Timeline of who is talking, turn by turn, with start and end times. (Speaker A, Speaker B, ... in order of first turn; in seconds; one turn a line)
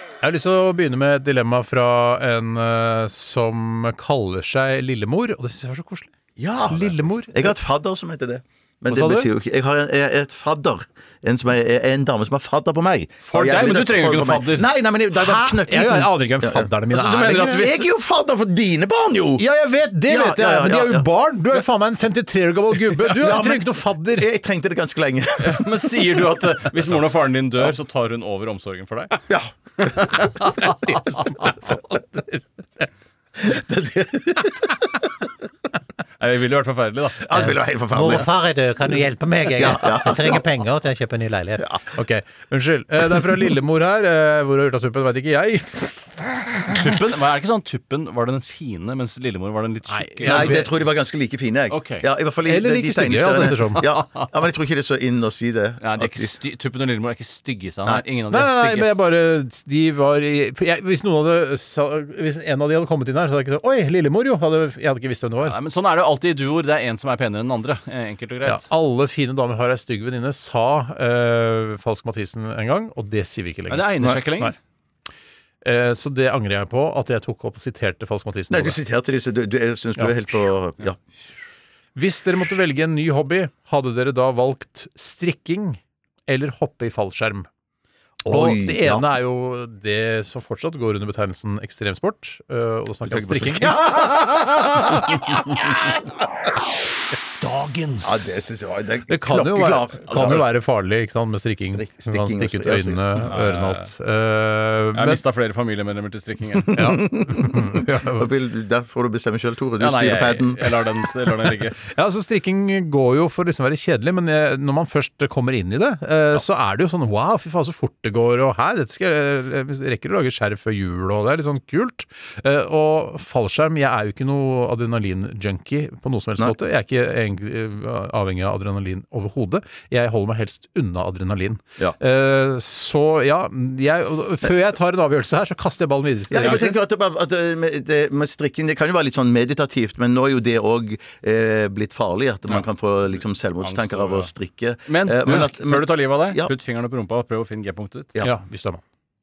Speaker A: 0.2-6.1
Speaker B: 6.4-16.7
Speaker A: 6.7-7.5
Speaker A: 8.9-9.3
Speaker C: 13.2-14.7
Speaker A: 15.1-17.6
Speaker C: 16.9-17.9
Speaker B: 17.3-19.4
Speaker A: 19.4-24.3
Speaker B: 20.1-21.1
Speaker B: 23.0-25.6
Speaker C: 25.4-29.2
Speaker B: 29.3-30.3
Speaker C: 29.8-31.6
Speaker B: 33.4-34.7
Speaker C: 36.2-37.3
Speaker B: 37.2-38.3
Speaker A: 37.3-46.8
Speaker B: 39.5-40.6
Speaker B: 41.6-41.8
Speaker C: 46.7-50.8
Speaker A: 49.9-51.0
Speaker B: 50.2-56.3
Speaker C: 51.7-52.0
Speaker A: 52.5-53.9
Speaker C: 53.8-54.3
Speaker C: 55.8-58.9
Speaker A: 58.3-65.5
Speaker C: 65.4-68.7
Speaker A: 68.4-74.5
Speaker C: 73.7-74.5
Speaker A: 75.6-78.8
Speaker B: 78.5-81.0
Speaker A: 82.0-87.5
Speaker B: 88.2-89.1
Speaker A: 88.3-95.1
Speaker B: 93.0-94.2
Speaker B: 94.9-95.1
Speaker B: 98.0-100.5
Speaker A: 99.1-105.2
Speaker B: 101.7-103.2
Speaker C: 103.2-103.9
Speaker C: 104.9-106.8
Speaker A: 106.7-108.3
Speaker B: 106.7-110.9
Speaker C: 109.8-111.8
Speaker A: 111.8-136.8
Speaker B: 136.3-146.5
Speaker C: 136.4-136.7
Speaker C: 143.6-144.3
Speaker C: 144.8-148.1
Speaker A: 148.2-148.8